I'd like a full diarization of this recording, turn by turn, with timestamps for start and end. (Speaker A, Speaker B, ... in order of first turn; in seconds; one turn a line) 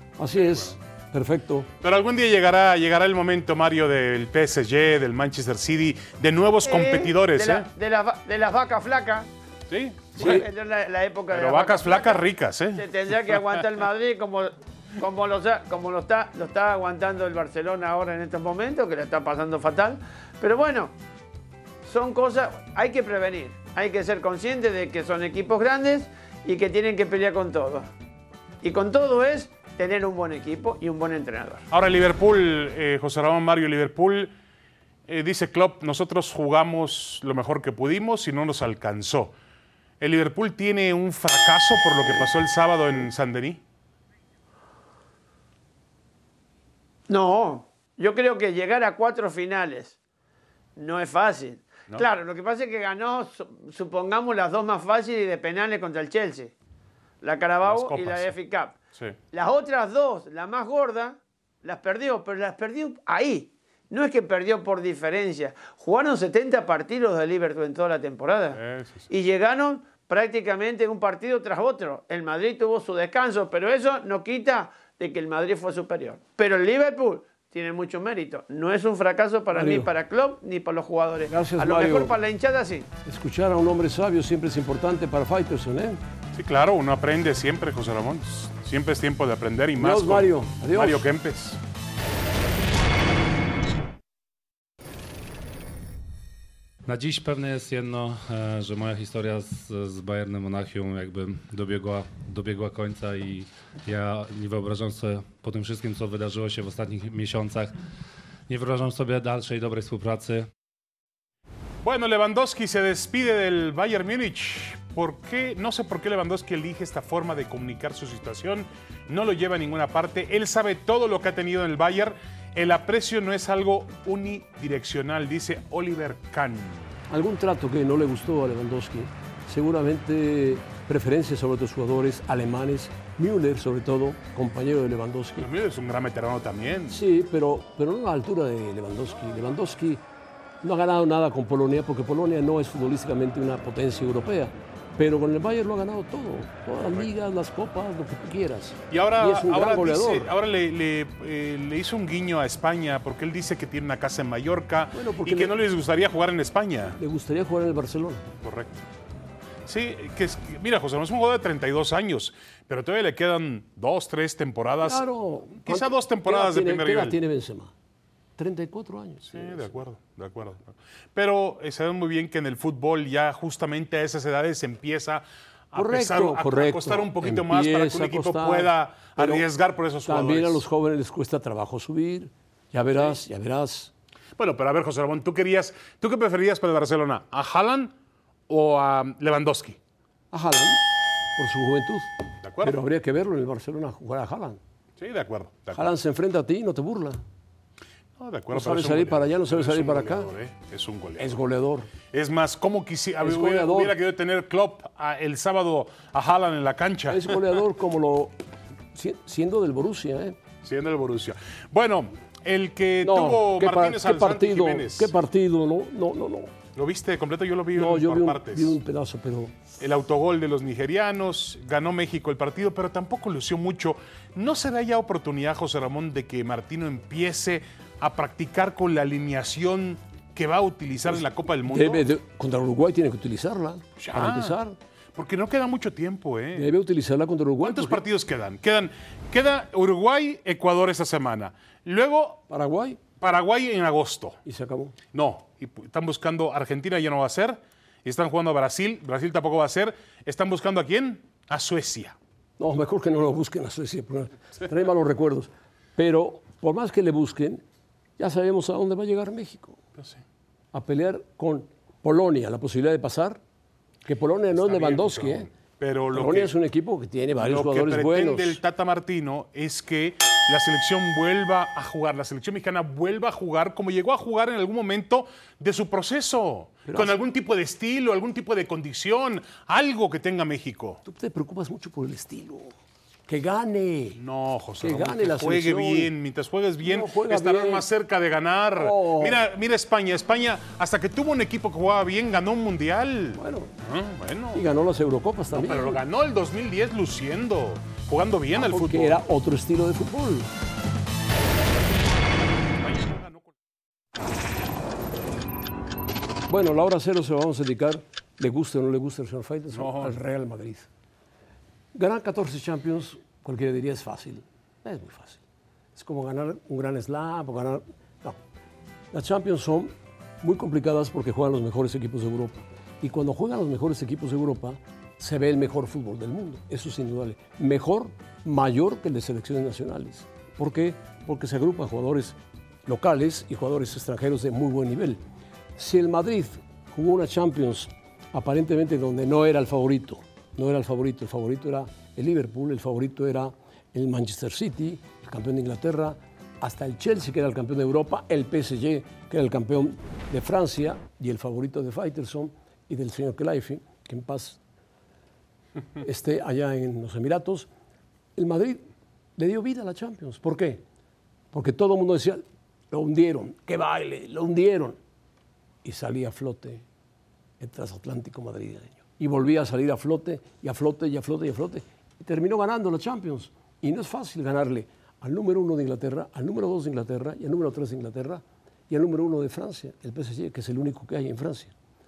Speaker A: 0.2-1.7
Speaker B: 0.3-0.8
Speaker B: 1.8-7.7
Speaker C: 6.6-9.3
Speaker B: 9.7-10.5
Speaker C: 10.2-12.2
Speaker A: 10.2-10.5
Speaker B: 11.3-13.4
Speaker C: 12.8-21.0
Speaker C: 21.8-27.9
Speaker C: 28.6-31.6
Speaker B: 31.7-34.3
Speaker B: 35.1-39.3
Speaker B: 40.0-43.6
Speaker C: 47.1-50.0
Speaker C: 50.8-56.5
Speaker C: 57.2-58.8
Speaker B: 57.6-58.4
Speaker C: 59.3-82.9
Speaker B: 68.5-69.1
Speaker A: 79.5-79.9
Speaker A: 81.3-82.2
Speaker A: 83.0-86.0
Speaker B: 86.3-91.6
Speaker A: 89.8-91.1
Speaker D: 96.9-107.8
Speaker D: 108.5-110.5
Speaker B: 111.8-127.0
Speaker A: 127.1-135.5
Speaker B: 135.4-137.0
Speaker A: 136.9-140.0
Speaker A: 140.6-150.3
Speaker B: 148.9-157.0
Speaker A: 154.9-155.5
Speaker A: 157.0-158.2
Speaker B: 158.4-158.8
Speaker B: 159.7-165.1
Speaker A: 164.8-167.7
Speaker B: 165.6-167.2
Speaker A: 168.4-169.8
Speaker B: 169.3-180.6
Speaker A: 175.7-179.4
Speaker A: 180.1-183.9
Speaker B: 184.4-187.9
Speaker B: 188.5-189.8
Speaker A: 190.3-190.8
Speaker A: 191.4-194.6
Speaker B: 192.4-192.8
Speaker B: 195.0-195.9
Speaker A: 195.7-197.2
Speaker B: 198.2-201.3
Speaker A: 198.5-200.3
Speaker A: 201.2-201.9
Speaker B: 202.1-207.4
Speaker A: 203.2-204.0
Speaker A: 207.1-208.3
Speaker A: 208.9-210.4
Speaker B: 210.6-215.1
Speaker A: 213.0-216.5
Speaker B: 216.8-218.8
Speaker A: 217.7-219.6
Speaker B: 219.8-232.1
Speaker A: 231.1-234.8
Speaker B: 234.0-234.6
Speaker B: 235.2-236.7
Speaker A: 236.5-238.0
Speaker B: 237.6-242.4
Speaker A: 242.5-243.0
Speaker B: 243.2-244.4
Speaker A: 244.4-244.9
Speaker B: 245.1-252.2
Speaker A: 252.6-257.6
Speaker A: 258.2-259.8
Speaker A: 260.7-263.4
Speaker A: 264.1-265.5
Speaker B: 264.5-266.5
Speaker A: 266.1-268.6
Speaker B: 267.4-281.0
Speaker A: 276.9-277.2
Speaker A: 281.1-282.7
Speaker A: 283.3-284.2
Speaker B: 284.2-294.6
Speaker A: 284.8-286.1
Speaker A: 286.8-287.9
Speaker A: 288.8-289.4
Speaker A: 293.4-293.7
Speaker A: 294.5-296.0
Speaker B: 295.5-299.2
Speaker A: 298.6-300.5
Speaker B: 302.8-303.5
Speaker A: 306.5-310.9
Speaker B: 309.7-310.1
Speaker A: 311.9-315.4
Speaker A: 315.9-318.4
Speaker A: 319.1-335.2
Speaker A: 335.8-354.6
Speaker A: 356.0-357.7
Speaker A: 358.4-358.8
Speaker A: 359.4-360.8
Speaker A: 361.5-365.0
Speaker A: 365.8-366.8
Speaker A: 367.6-381.7